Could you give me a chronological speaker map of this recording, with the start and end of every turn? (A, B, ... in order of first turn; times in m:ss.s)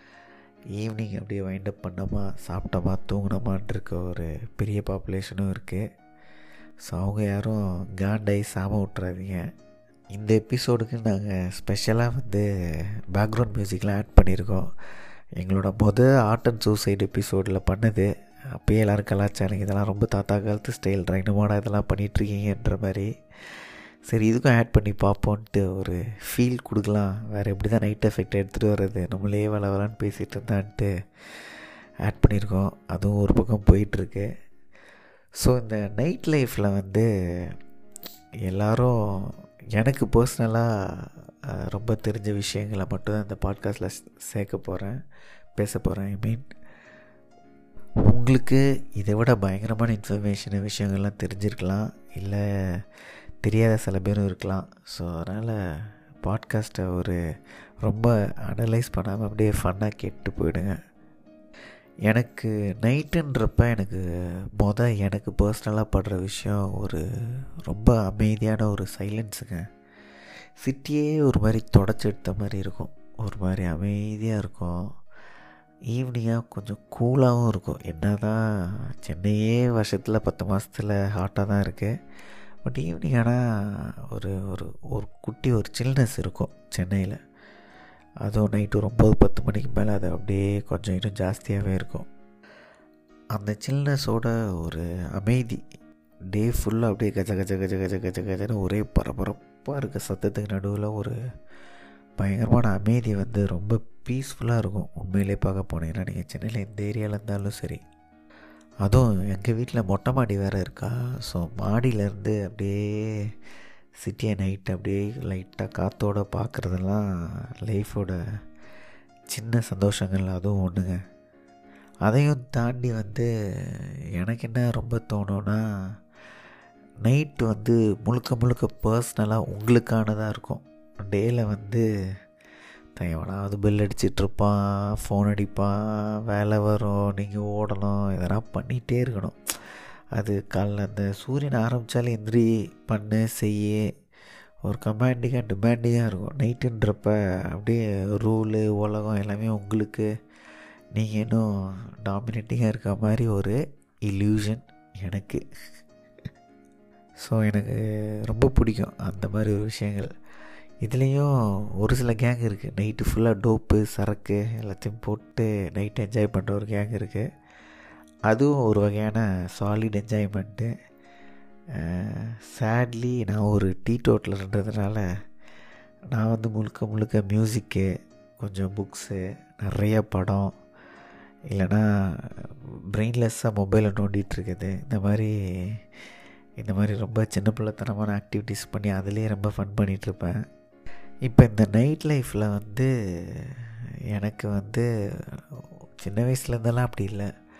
0:00.8-0:05.8 A
0:06.9-0:09.4 A
0:10.1-0:12.5 A
0:13.1-0:14.7 A
0:15.4-0:34.3 A
0:35.4-0:37.6 A
0:38.5-0:45.0 A
0:45.6-0:46.4 A
0:48.1-0:55.6 A
0:56.2-0:57.2 A
0:57.8-1:00.8 A
1:02.1-1:04.0 A
1:04.6-1:07.0 A
1:07.6-1:09.6 A
1:10.6-1:14.8 A
1:15.9-1:21.9 A
1:22.6-1:27.2 A
1:28.2-1:32.1 A
1:33.4-1:35.6 A
1:36.3-1:41.1 A
1:42.2-1:47.8 A
1:48.8-1:53.2 A
1:54.0-1:57.1 A
1:57.6-1:58.2 A
1:59.3-2:01.0 A
2:02.0-2:05.6 A
2:07.0-2:11.8 A
2:13.0-2:15.8 A
2:16.3-2:23.8 A
2:24.6-2:30.1 A
2:30.9-2:31.5 A
2:32.0-2:33.6 A
2:34.1-2:35.4 A
2:37.2-2:40.1 A
2:40.8-2:47.3 A
2:48.3-2:50.7 A
2:51.8-2:55.0 A
2:56.1-2:57.9 A
2:58.4-3:00.5 A
3:01.5-3:06.0 A
3:06.6-3:10.4 A
3:11.3-3:17.3 A